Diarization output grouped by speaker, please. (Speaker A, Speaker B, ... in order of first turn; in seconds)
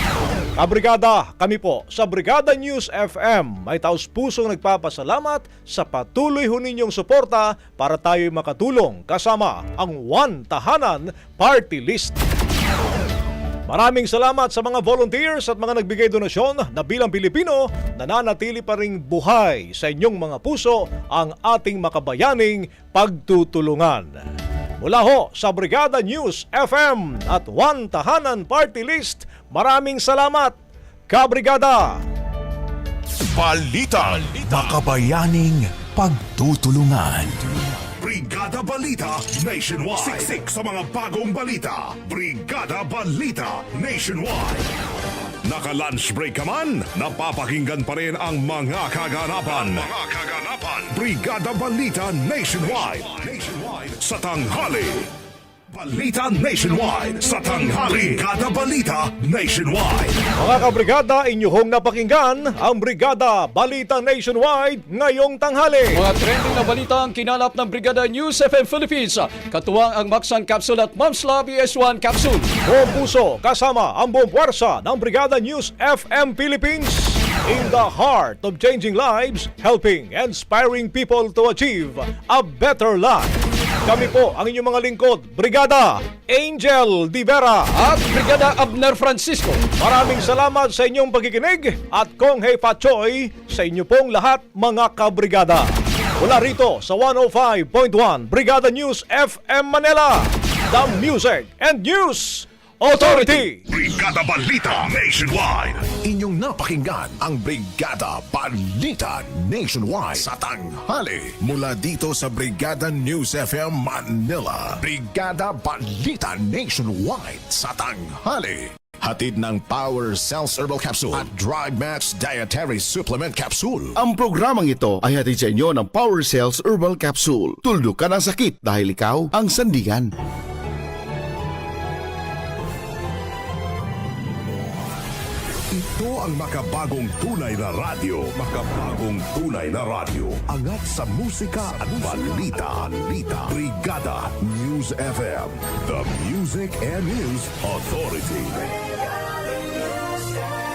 Speaker A: 0.6-12.2, 13.7-24.1, 24.8-30.6, 31.1-32.0, 60.4-66.0, 72.7-83.3, 83.8-87.7, 89.8-95.7, 96.2-103.6
Speaker B: 33.3-37.4, 106.0-123.9, 141.6-142.9
Speaker C: 38.0-44.7, 45.4-55.1, 55.7-60.3, 103.7-105.8, 135.7-148.6
Speaker D: 65.9-72.5, 87.7-89.7, 102.9-103.4
Speaker E: 124.0-130.1